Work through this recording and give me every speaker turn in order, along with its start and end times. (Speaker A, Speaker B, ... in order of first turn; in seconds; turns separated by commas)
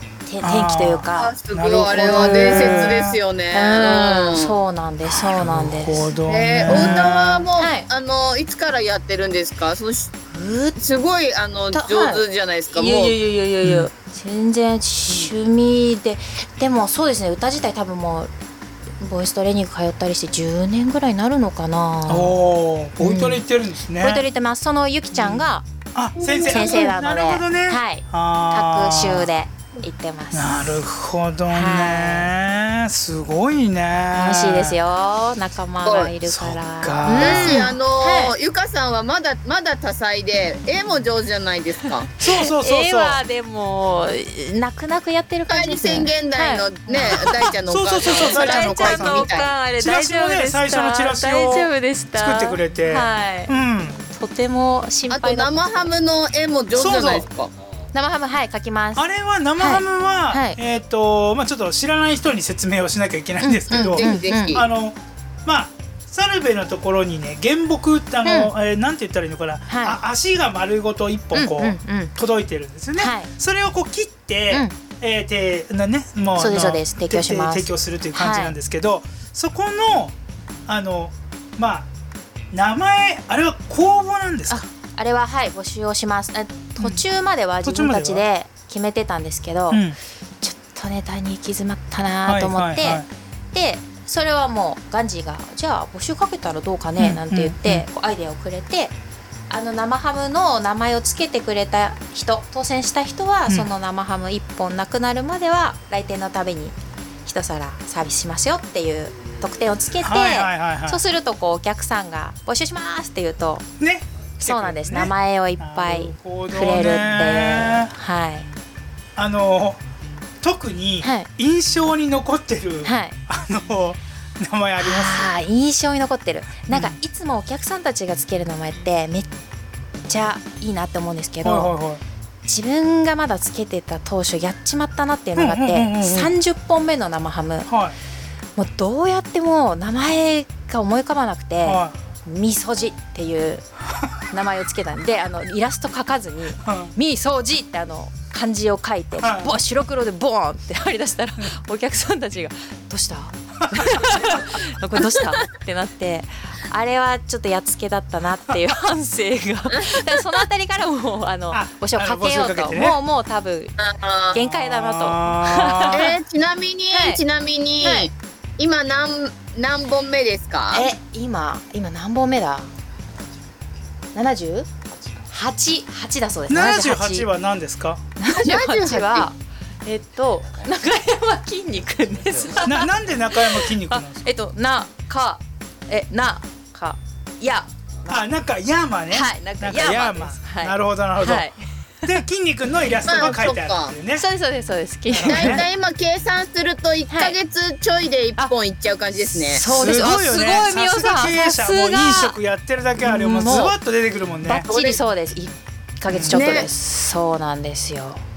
Speaker A: 0.2-1.4, Speaker B: 0.4-3.2, Speaker C: 1.2-4.5, Speaker A: 1.9-7.8, Speaker B: 5.0-7.5, Speaker C: 6.2-10.1, Speaker A: 10.3-10.8, Speaker C: 10.8-13.2, Speaker A: 11.7-18.3, Speaker B: 13.6-13.9, Speaker A: 19.0-22.4, Speaker B: 22.1-24.2, Speaker A: 23.0-23.4, Speaker A: 24.0-25.6, Speaker B: 25.1-29.3, Speaker C: 26.2-26.9, Speaker A: 26.4-30.8, Speaker B: 30.3-34.8, Speaker A: 31.5-32.3, Speaker A: 34.1-38.3, Speaker C: 35.9-36.1, Speaker B: 36.2-37.7, Speaker C: 37.1-42.1, Speaker A: 42.2-47.5, Speaker B: 42.2-43.2, Speaker C: 45.5-49.5, Speaker B: 47.7-54.0, Speaker A: 48.0-53.5, Speaker A: 54.1-55.9, Speaker C: 55.1-57.5, Speaker B: 56.7-57.2, Speaker A: 57.9-59.0, Speaker B: 59.0-80.1, Speaker A: 59.6-60.6, Speaker A: 63.4-64.6, Speaker C: 63.7-64.7, Speaker A: 68.2-68.5, Speaker A: 69.7-70.0, Speaker A: 71.3-72.1, Speaker A: 73.0-73.3, Speaker A: 74.5-74.8, Speaker A: 76.4-78.5, Speaker B: 80.7-81.9, Speaker B: 82.5-84.6, Speaker A: 84.5-89.8, Speaker B: 87.6-88.2, Speaker B: 89.7-90.0, Speaker A: 90.4-98.9, Speaker B: 92.2-93.0, Speaker B: 97.0-97.8, Speaker A: 99.5-113.7, Speaker B: 110.0-111.0, Speaker B: 113.8-117.9, Speaker A: 114.4-118.5, Speaker B: 119.2-119.8, Speaker B: 120.4-125.3, Speaker A: 121.0-121.3, Speaker A: 122.8-123.2, Speaker A: 124.8-129.3, Speaker B: 126.7-127.0, Speaker A: 130.1-131.7, Speaker B: 131.4-132.0, Speaker A: 132.4-137.7, Speaker B: 135.4-136.3, Speaker B: 137.7-137.9, Speaker A: 138.6-143.6, Speaker B: 141.6-141.9, Speaker A: 144.3-163.7, Speaker B: 146.6-146.9, Speaker B: 149.2-149.6, Speaker B: 153.6-154.5, Speaker C: 159.7-160.2, Speaker B: 161.5-163.0, Speaker C: 163.8-164.4, Speaker A: 164.3-166.1, Speaker B: 164.3-166.1, Speaker C: 165.9-170.9, Speaker A: 166.9-167.2, Speaker A: 167.8-168.1, Speaker A: 170.7-172.7, Speaker A: 174.1-174.7, Speaker A: 175.3-177.3, Speaker B: 176.5-178.0, Speaker A: 178.2-188.2, Speaker C: 178.3-179.3, Speaker B: 182.6-184.3, Speaker B: 188.1-191.4, Speaker A: 189.1-192.2, Speaker B: 192.0-194.2, Speaker C: 193.0-193.9, Speaker A: 194.1-195.6, Speaker B: 195.1-195.6, Speaker C: 195.2-199.7, Speaker A: 197.1-197.3, Speaker A: 199.2-202.3, Speaker B: 199.6-204.7, Speaker A: 203.0-203.7, Speaker A: 204.4-208.2, Speaker C: 204.6-205.0, Speaker B: 206.1-206.4, Speaker C: 206.3-206.7